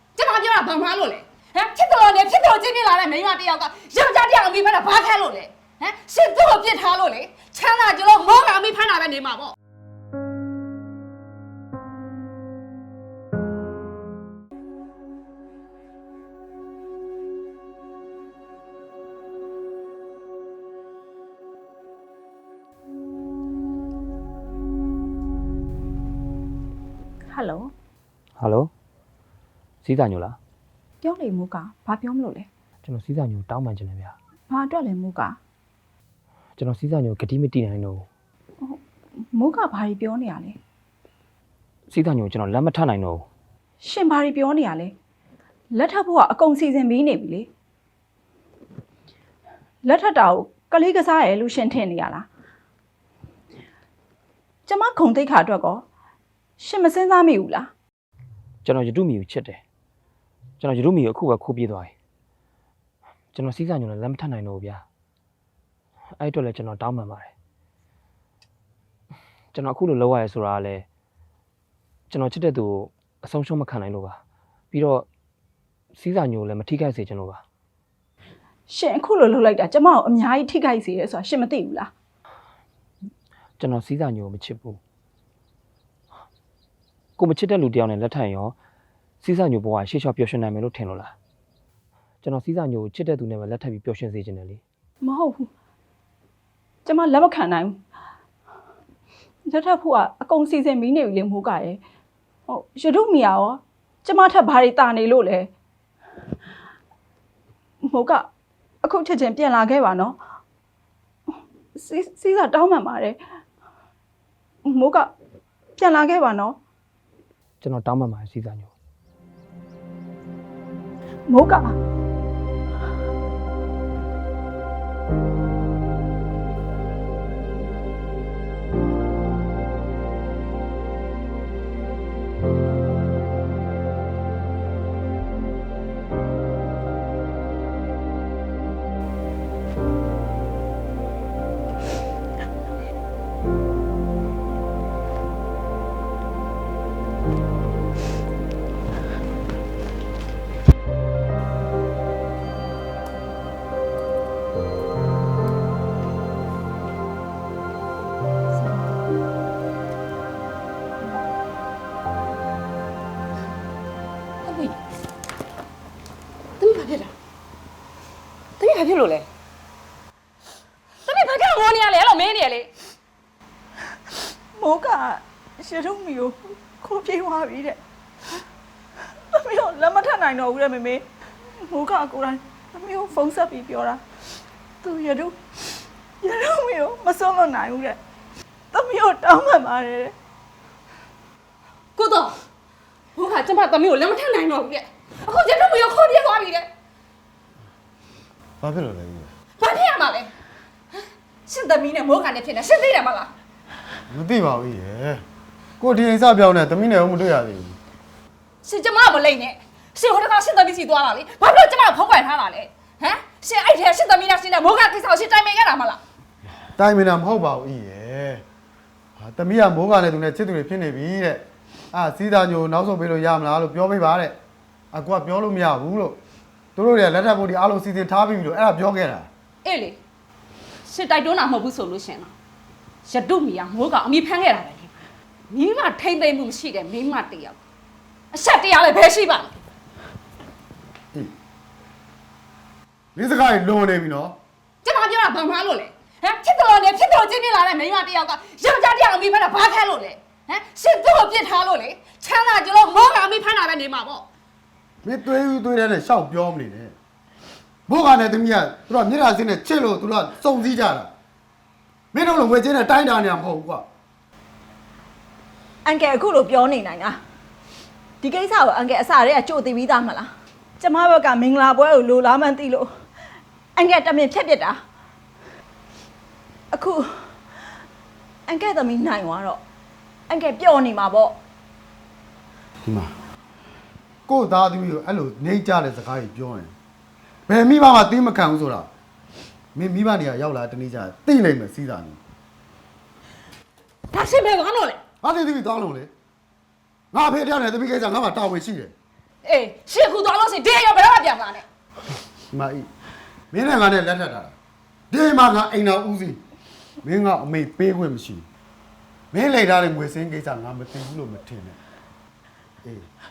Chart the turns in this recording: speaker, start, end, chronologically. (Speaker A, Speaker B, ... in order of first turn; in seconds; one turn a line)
Speaker A: 0.1-9.5
Speaker B: 27.3-27.7
Speaker C: 28.4-28.7
Speaker C: 29.8-30.4
Speaker B: 31.0-32.5
Speaker C: 32.8-34.1
Speaker B: 34.5-35.4
Speaker C: 36.6-38.0
Speaker B: 39.3-40.6
Speaker C: 41.9-43.2
Speaker B: 43.8-44.9
Speaker B: 45.7-47.5
Speaker B: 49.8-52.2
Speaker B: 54.7-55.8
Speaker B: 56.6-57.7
Speaker C: 58.6-59.6
Speaker C: 60.6-61.9
Speaker C: 63.3-64.8
Speaker C: 66.2-67.3
Speaker C: 69.5-70.8
Speaker C: 72.1-74.2
Speaker C: 74.7-75.0
Speaker C: 76.0-77.4
Speaker B: 78.7-81.9
Speaker C: 83.6-84.8
Speaker C: 87.2-88.5
Speaker C: 89.2-91.1
Speaker C: 92.2-94.6
Speaker B: 95.0-95.5
Speaker B: 96.8-97.8
Speaker B: 99.5-101.8
Speaker B: 102.5-105.5
Speaker B: 107.8-108.3
Speaker B: 108.8-110.2
Speaker B: 111.8-113.2
Speaker B: 114.6-115.1
Speaker B: 115.8-116.5
Speaker C: 117.6-118.7
Speaker B: 121.3-121.8
Speaker A: 164.4-164.7
Speaker A: 166.6-167.1
Speaker A: 168.6-169.3
Speaker A: 171.0-172.7
Speaker B: 174.6-177.8
Speaker B: 179.3-184.0
Speaker B: 184.8-185.4
Speaker B: 186.2-188.0
Speaker B: 188.7-190.1
Speaker A: 191.9-192.3
Speaker A: 193.2-196.7
Speaker D: 198.6-199.3
Speaker A: 199.6-200.3
Speaker A: 201.4-203.3
Speaker D: 204.1-205.2
Speaker D: 205.8-207.8
Speaker A: 208.6-216.0
Speaker D: 216.8-218.4
Speaker D: 219.2-224.4
Speaker D: 224.9-226.2
Speaker D: 226.8-229.3
Speaker A: 229.6-230.0
Speaker A: 230.8-232.3
Speaker A: 233.0-234.9
Speaker A: 235.5-237.6
Speaker A: 238.3-239.5
Speaker D: 243.1-244.4
Speaker A: 244.8-254.2
Speaker D: 255.0-256.9
Speaker D: 257.9-261.1
Speaker D: 262.1-263.9
Speaker B: 265.8-267.2
Speaker B: 268.2-272.9
Speaker B: 273.8-274.8
Speaker B: 276.7-277.4
Speaker B: 278.5-279.6
Speaker B: 280.3-281.4
Speaker D: 282.8-283.1
Speaker D: 284.3-286.7
Speaker D: 287.5-288.9
Speaker D: 289.7-292.2
Speaker A: 294.1-295.0
Speaker D: 295.2-296.1
Speaker D: 297.1-298.9
Speaker A: 299.4-301.6
Speaker D: 302.5-302.9
Speaker D: 303.5-304.5
Speaker D: 305.1-306.4
Speaker D: 307.0-308.4
Speaker D: 309.3-311.8